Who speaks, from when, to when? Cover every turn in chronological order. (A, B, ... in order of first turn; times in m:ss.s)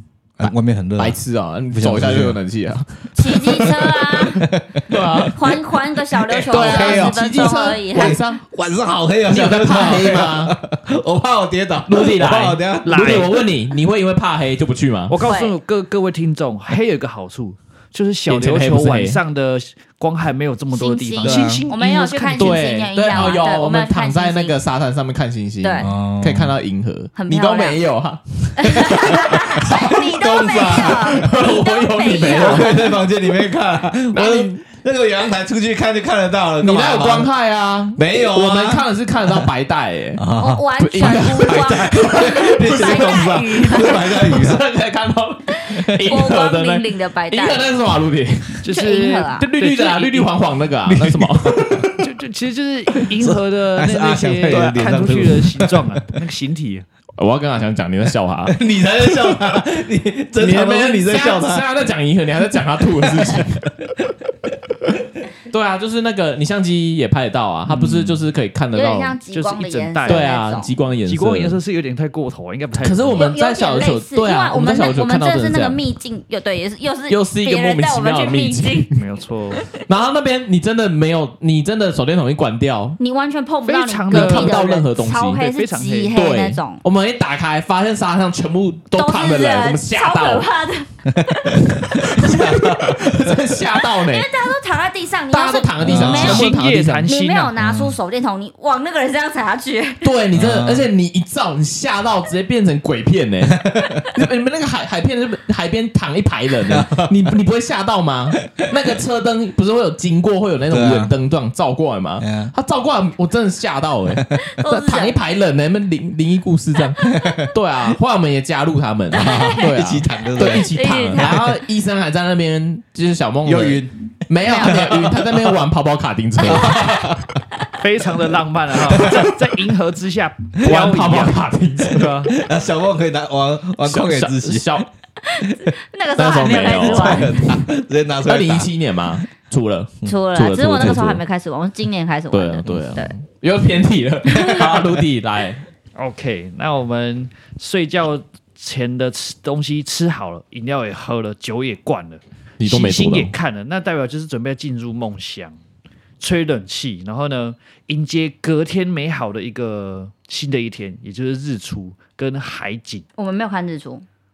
0:00.4-0:01.2 A
0:00.4-0:03.8 B
0:01.7-0:02.4 A
0:03.2-0:04.4 C
0:04.4-0:05.3 A
0:04.9-0:05.4 B
0:05.4-0:08.2 C
0:06.3-0:13.3 A
0:06.5-0:08.4 B
0:09.3-0:10.6 B
0:11.9-0:15.2 B
0:12.9-0:13.4 D
0:15.1-0:23.3 D
0:15.2-0:15.6 C
0:18.3-0:19.2 B
0:20.7-0:24.5 C
0:21.2-0:21.7 A
0:22.4-0:33.0 B
0:25.6-0:25.9 C
0:25.8-0:26.6 A
0:27.2-0:27.8 C
0:28.6-0:33.0 C
0:29.7-0:31.3 A
0:32.2-0:37.3 A
0:34.1-0:34.6 B
0:36.6-0:40.3 B
0:38.0-0:39.5 A
0:40.2-0:44.6 A
0:40.4-0:44.2 C
0:40.8-0:48.7 B
0:45.5-0:47.7 C
0:48.6-0:50.3 D
0:48.7-0:49.5 C
0:49.4-0:52.0 B
0:50.8-0:51.9 A
0:52.0-0:56.8 D
0:53.2-0:56.0 A
0:54.5-0:54.8 B
0:57.2-0:58.6 B
0:58.5-1:01.7 A
1:00.4-1:03.7 B
1:03.0-1:03.4 A
1:05.5-1:09.2 B
1:07.7-1:08.2 A
1:08.7-1:10.7 C
1:09.3-1:10.3 D
1:10.0-1:11.6 B
1:11.1-1:13.3 D
1:12.7-1:15.8 B
1:13.1-1:18.9 C
1:17.1-1:19.0 B
1:19.0-1:19.6 D
1:19.8-1:23.0 B
1:23.0-1:26.8 C
1:23.7-1:26.2 D
1:24.1-1:25.4 B
1:26.1-1:30.5 B
1:29.0-1:32.4 C
1:31.1-1:33.4 A
1:31.7-1:34.3 B
1:33.9-1:36.5 C
1:35.3-1:37.1 B
1:35.8-1:36.5 A
1:35.9-1:37.5 D
1:37.1-1:40.1 C
1:37.6-1:38.0 A
1:40.0-2:07.2 B
1:40.3-1:40.9 A
1:43.5-1:44.2 A
1:46.7-1:47.2 A
1:50.7-1:51.1 A
1:52.2-1:52.5 A
1:54.4-1:55.2 C
1:57.0-1:57.3 C
1:57.1-1:57.6 A
1:59.1-2:01.2 A
1:59.2-1:59.6 C
2:00.4-2:01.4 C
2:03.4-2:03.9 A
2:04.4-2:04.8 C
2:04.6-2:05.6 A
2:06.4-2:07.3 A
2:06.5-2:06.9 C
2:07.8-2:12.4 D
2:08.8-2:09.4 A
2:10.6-2:12.3 B
2:12.3-2:14.9 A
2:13.8-2:14.9 B
2:15.3-2:17.4 C
2:16.2-2:17.6 B
2:16.5-2:18.7 A
2:18.2-2:21.2 B
2:20.0-2:23.1 C
2:22.3-2:25.6 B
2:24.3-2:24.7 C
2:26.0-2:35.6 D
2:32.6-2:33.3 B
2:36.2-2:43.1 D
2:43.2-2:44.0 C